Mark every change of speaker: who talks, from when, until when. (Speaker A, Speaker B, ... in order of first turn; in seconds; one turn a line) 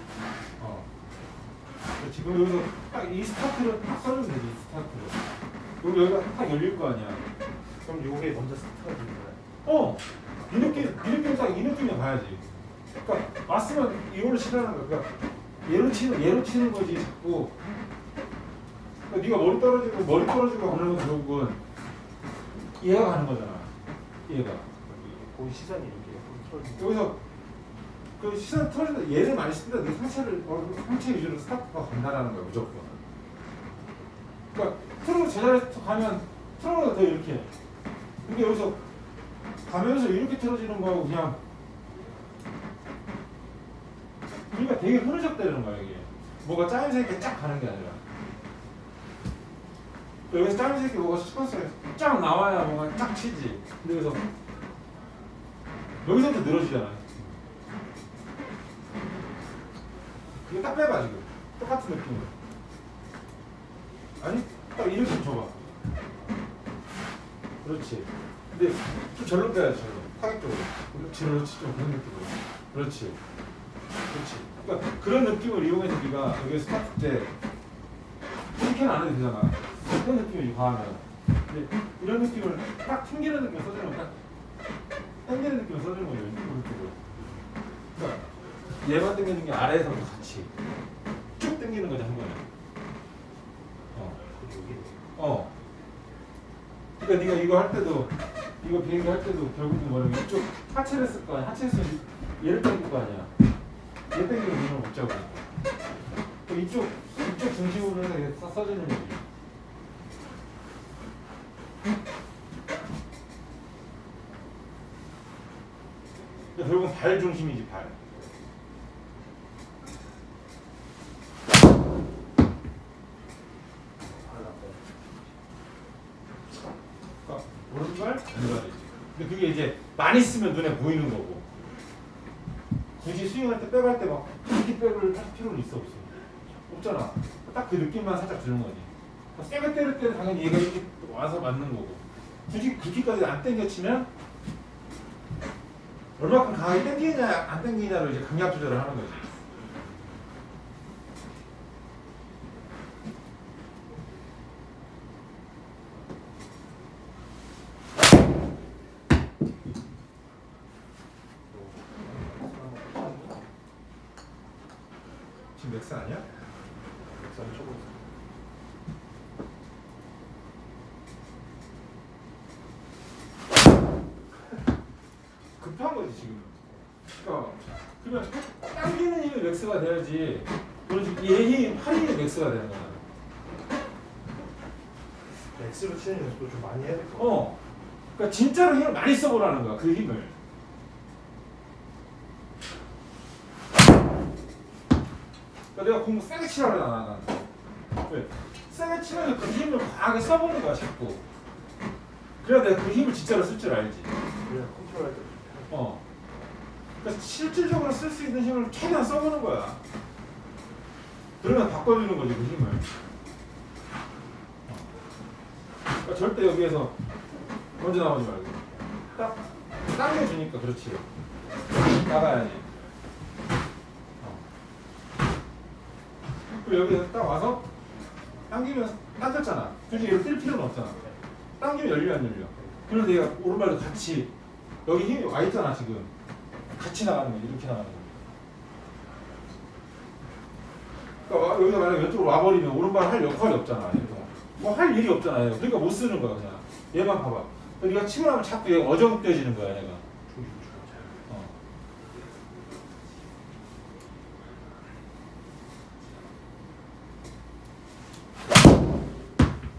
Speaker A: 0.6-0.9
Speaker A: 2.0-5.2
Speaker A: 5.8-7.2
Speaker B: 7.7-9.4
Speaker A: 9.6-12.4
Speaker B: 10.4-11.4
Speaker A: 13.0-15.1
Speaker A: 15.6-17.6
Speaker A: 19.1-21.6
Speaker A: 22.8-23.7
Speaker A: 24.2-24.7
Speaker B: 24.9-27.1
Speaker A: 26.8-27.2
Speaker A: 28.2-33.0
Speaker A: 34.5-37.5
Speaker A: 38.2-38.8
Speaker A: 39.6-41.4
Speaker A: 44.5-48.0
Speaker A: 50.3-54.3
Speaker A: 56.0-57.2
Speaker A: 60.4-62.3
Speaker A: 64.2-65.5
Speaker A: 67.6-73.2
Speaker A: 74.1-77.3
Speaker A: 78.5-84.1
Speaker A: 85.2-87.0
Speaker A: 87.9-88.3
Speaker A: 88.8-90.5
Speaker A: 91.4-92.4
Speaker B: 94.3-95.0
Speaker A: 95.2-95.5
Speaker A: 97.0-103.3
Speaker A: 104.1-105.5
Speaker A: 106.5-109.2
Speaker A: 116.5-118.0
Speaker B: 124.0-125.1
Speaker A: 127.2-131.4
Speaker A: 133.0-144.1
Speaker A: 146.2-149.3
Speaker B: 161.5-163.4
Speaker A: 165.6-166.2
Speaker B: 167.0-168.0
Speaker A: 175.6-176.6
Speaker A: 177.1-183.0
Speaker B: 185.5-187.4
Speaker A: 187.2-187.6
Speaker A: 188.1-190.3
Speaker A: 195.7-197.4
Speaker A: 198.0-201.2
Speaker A: 202.4-204.1
Speaker B: 204.4-205.8
Speaker A: 205.7-206.0
Speaker A: 207.0-209.8
Speaker A: 211.4-212.8
Speaker A: 216.0-216.9
Speaker A: 217.8-221.1
Speaker A: 221.8-222.7
Speaker A: 226.5-227.7
Speaker A: 228.5-231.0
Speaker A: 231.6-234.3
Speaker B: 232.5-232.8
Speaker A: 234.8-236.1
Speaker A: 236.7-238.2
Speaker A: 241.2-250.0
Speaker B: 250.3-251.2